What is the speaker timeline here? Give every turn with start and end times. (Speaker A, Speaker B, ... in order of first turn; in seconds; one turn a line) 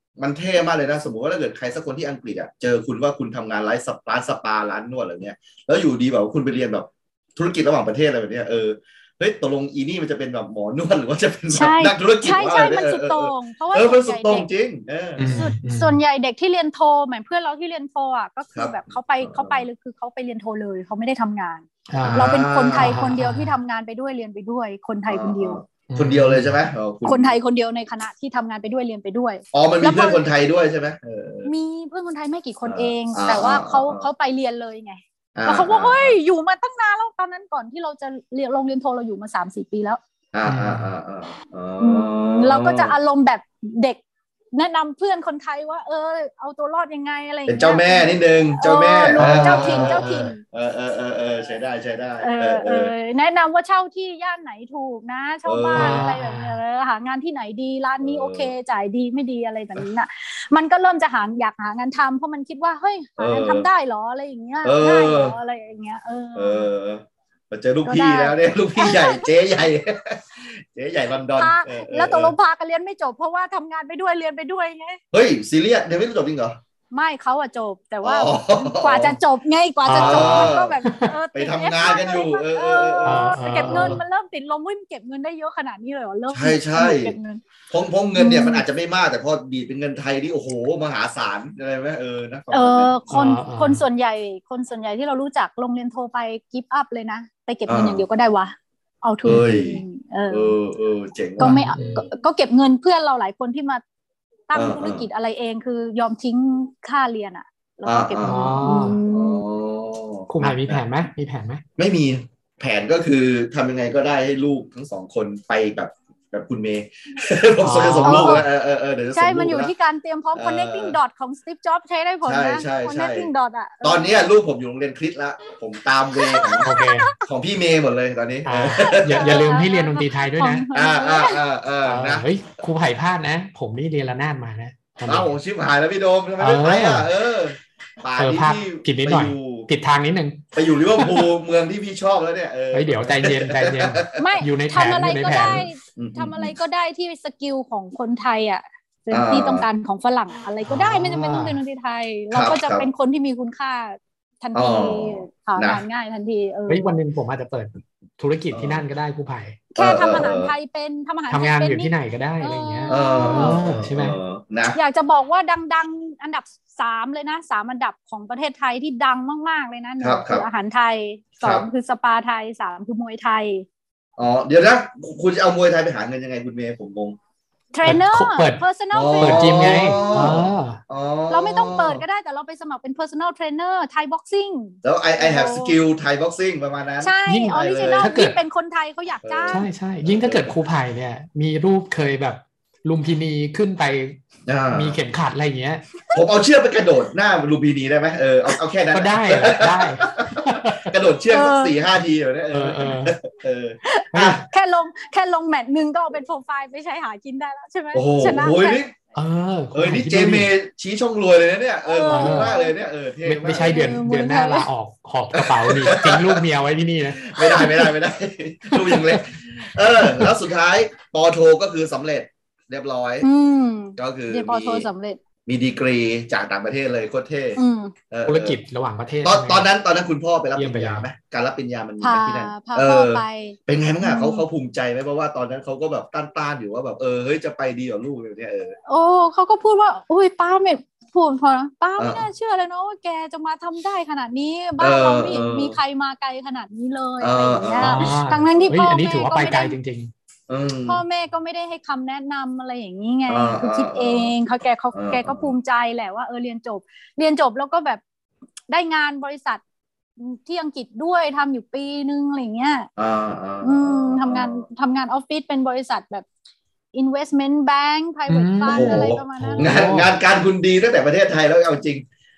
Speaker A: 0.2-15.3
Speaker B: 11.5-14.5
Speaker C: 15.2-16.0
Speaker B: 15.2-25.6
Speaker A: 18.6-19.6
Speaker C: 21.9-23.6
Speaker A: 22.0-23.0
Speaker A: 25.1-27.3
Speaker C: 25.9-26.7
Speaker B: 27.1-30.3
Speaker A: 29.5-31.5
Speaker B: 31.4-40.0
Speaker A: 32.6-34.1
Speaker A: 35.4-36.2
Speaker A: 40.3-42.9
Speaker C: 40.5-40.9
Speaker B: 41.8-44.0
Speaker B: 44.5-50.4
Speaker A: 47.5-52.9
Speaker C: 49.2-50.3
Speaker B: 52.2-66.7
Speaker A: 55.5-56.0
Speaker C: 55.8-56.6
Speaker A: 58.0-58.5
Speaker A: 63.2-63.7
Speaker A: 64.6-65.4
Speaker A: 66.3-72.3
Speaker B: 67.8-69.3
Speaker B: 71.4-75.0
Speaker A: 75.1-76.6
Speaker B: 76.9-87.4
Speaker A: 78.0-79.2
Speaker C: 79.8-81.2
Speaker A: 79.9-80.8
Speaker A: 81.3-84.0
Speaker C: 83.0-84.0
Speaker A: 86.3-87.2
Speaker A: 87.7-93.0
Speaker B: 88.2-88.7
Speaker B: 92.5-100.5
Speaker C: 93.1-93.8
Speaker A: 97.7-98.0
Speaker A: 99.2-101.8
Speaker B: 101.4-103.8
Speaker C: 101.4-102.1
Speaker B: 104.5-109.4
Speaker A: 104.5-105.1
Speaker A: 107.8-110.8
Speaker C: 108.2-109.0
Speaker C: 110.3-111.6
Speaker A: 111.8-119.7
Speaker C: 117.6-118.4
Speaker B: 118.0-118.4
Speaker B: 119.1-124.2
Speaker A: 120.3-121.0
Speaker A: 122.2-123.3
Speaker A: 123.8-126.7
Speaker B: 126.2-127.2
Speaker C: 126.6-127.1
Speaker A: 127.2-129.6
Speaker C: 128.4-130.7
Speaker B: 128.8-131.4
Speaker A: 130.7-132.3
Speaker C: 131.8-135.3
Speaker A: 135.1-139.7
Speaker C: 136.4-137.1
Speaker C: 138.2-141.3
Speaker A: 140.6-144.2
Speaker C: 142.7-145.7
Speaker B: 144.2-156.9
Speaker A: 145.3-146.6
Speaker A: 149.1-149.7
Speaker C: 150.7-151.6
Speaker A: 152.3-152.9
Speaker A: 154.5-155.8
Speaker C: 156.7-159.6
Speaker A: 158.5-158.8
Speaker B: 159.7-163.6
Speaker A: 159.8-160.5
Speaker C: 161.3-164.2
Speaker A: 162.9-164.8
Speaker B: 164.7-173.7
Speaker A: 170.0-170.5
Speaker A: 171.4-171.7
Speaker A: 174.2-177.2
Speaker B: 177.7-180.4
Speaker C: 177.8-178.6
Speaker A: 178.9-182.0
Speaker C: 179.2-180.8
Speaker B: 181.3-185.8
Speaker A: 184.8-188.2
Speaker B: 187.0-189.7
Speaker C: 187.3-188.4
Speaker A: 189.2-190.6
Speaker C: 189.5-194.2
Speaker A: 194.5-195.0
Speaker C: 194.7-195.9
Speaker A: 196.1-204.4
Speaker C: 198.9-200.9
Speaker B: 201.3-201.8
Speaker C: 202.5-203.2
Speaker B: 203.8-208.8
Speaker C: 204.1-204.4
Speaker A: 207.9-208.9
Speaker C: 209.2-210.5
Speaker A: 209.7-213.9
Speaker B: 211.8-212.7
Speaker C: 212.1-212.5
Speaker C: 213.2-217.9
Speaker B: 213.6-214.7
Speaker A: 215.3-216.4
Speaker A: 217.1-223.3
Speaker C: 218.7-219.2
Speaker C: 220.0-220.3
Speaker B: 223.2-225.2
Speaker A: 224.0-224.9
Speaker A: 225.5-227.6
Speaker B: 227.6-227.9
Speaker A: 228.1-228.6
Speaker C: 228.3-229.7
Speaker A: 229.2-238.8
Speaker C: 230.6-231.1
Speaker B: 232.0-234.4
Speaker B: 238.9-249.8
Speaker A: 242.0-242.2
Speaker A: 244.8-245.8
Speaker A: 247.2-248.2
Speaker C: 247.8-250.1
Speaker A: 250.5-251.0
Speaker B: 250.9-258.0
Speaker A: 253.3-254.3
Speaker A: 254.9-255.5
Speaker B: 258.7-259.6
Speaker B: 260.2-262.9
Speaker A: 263.0-264.6
Speaker B: 263.6-266.3
Speaker B: 266.9-269.9
Speaker C: 268.3-270.1
Speaker A: 268.6-272.1